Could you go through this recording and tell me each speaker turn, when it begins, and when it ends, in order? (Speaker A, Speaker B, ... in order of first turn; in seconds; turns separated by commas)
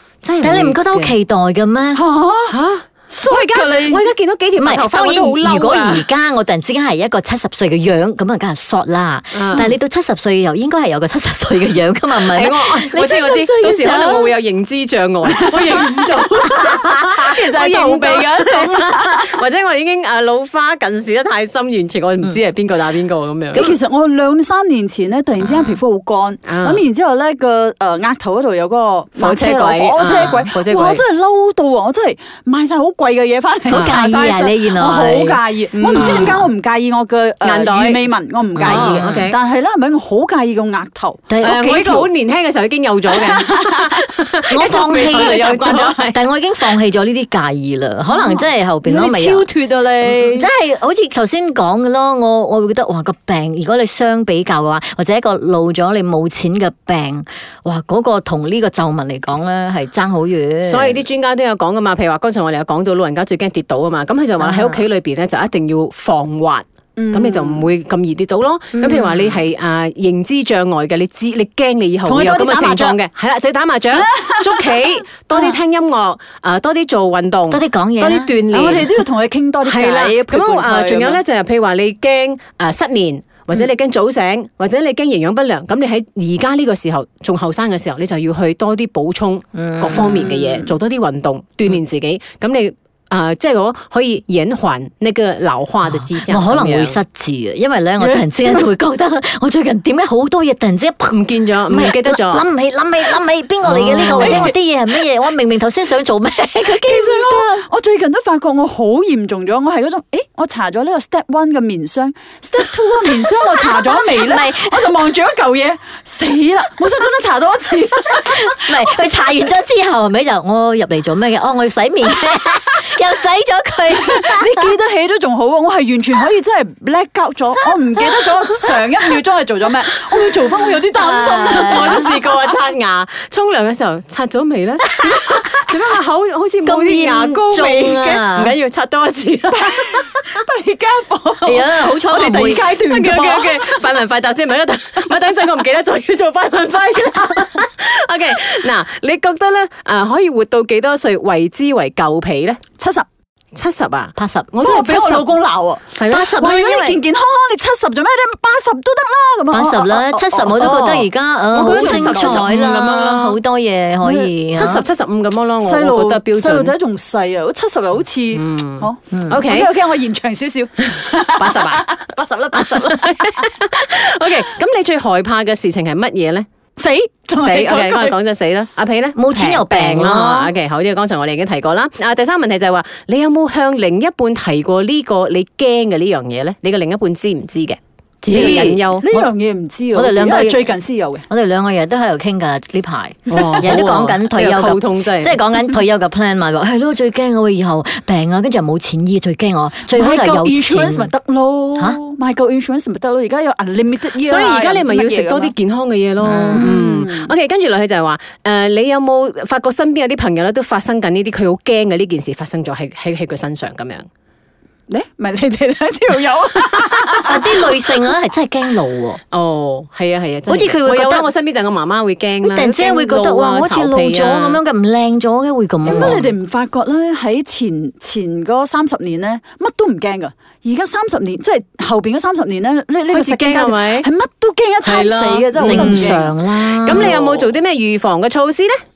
Speaker A: 0.2-1.1, Speaker B: 0.4-2.0, Speaker C: 1.9-2.6, Speaker A: 2.5-6.1, Speaker C: 3.1-4.1, Speaker B: 4.6-14.4, Speaker A: 9.3-9.7, Speaker A: 12.1-23.7, Speaker C: 15.4-15.8, Speaker C: 16.4-19.4, Speaker C: 23.5-42.1, Speaker A: 26.4-26.8, Speaker A: 29.2-31.0, Speaker B: 33.7-36.5, Speaker A: 35.7-36.4, Speaker A: 37.4-38.0, Speaker B: 38.6-39.3, Speaker A: 38.6-39.4, Speaker B: 41.3-41.7, Speaker A: 41.4-46.2, Speaker C: 43.1-43.9, Speaker B: 44.5-49.5, Speaker C: 44.6-46.0, Speaker C: 48.1-50.5, Speaker B: 50.2-61.0, Speaker A: 60.6-79.0, Speaker B: 64.4-64.8, Speaker C: 67.0-67.7, Speaker B: 68.8-69.4, Speaker C: 72.0-73.0, Speaker C: 73.9-75.6, Speaker B: 77.5-78.4, Speaker C: 78.5-81.2, Speaker A: 79.6-97.0, Speaker B: 89.5-90.3, Speaker C: 90.2-90.7, Speaker B: 96.1-107.6, Speaker C: 98.0-98.6, Speaker A: 101.1-102.5, Speaker A: 103.7-104.5, Speaker C: 103.9-104.5, Speaker C: 106.7-118.5, Speaker B: 113.7-115.0, Speaker B: 118.2-124.7, Speaker C: 124.0-132.2, Speaker B: 131.0-132.0, Speaker A: 131.6-140.1, Speaker B: 136.6-138.5, Speaker C: 139.5-143.9, Speaker B: 141.4-142.6, Speaker A: 142.5-152.6, Speaker C: 152.8-153.1, Speaker A: 153.5-155.3, Speaker B: 154.2-154.6, Speaker C: 154.6-160.7, Speaker A: 156.0-156.4, Speaker B: 156.1-157.0, Speaker B: 159.5-164.8, Speaker A: 160.6-163.4, Speaker C: 161.6-162.5, Speaker C: 164.0-164.3, Speaker A: 164.5-166.7, Speaker C: 165.6-173.5, Speaker A: 168.3-169.7, Speaker B: 169.1-169.4, Speaker A: 170.9-171.9, Speaker A: 172.5-176.5, Speaker C: 176.8-178.2, Speaker A: 177.3-189.1, Speaker B: 179.2-180.5, Speaker B: 188.2-189.3, Speaker C: 188.3-191.2, Speaker B: 189.9-190.6, Speaker B: 191.3-201.1, Speaker A: 193.3-195.4, Speaker C: 199.9-205.5, Speaker A: 204.2-214.1, Speaker B: 206.2-206.8, Speaker C: 206.5-207.3, Speaker C: 214.9-217.7, Speaker B: 217.2-219.2, Speaker A: 219.3-224.6, Speaker B: 220.5-221.3, Speaker B: 222.4-226.3, Speaker C: 225.8-236.3, Speaker A: 233.1-234.1, Speaker A: 234.8-238.8, Speaker B: 235.6-237.5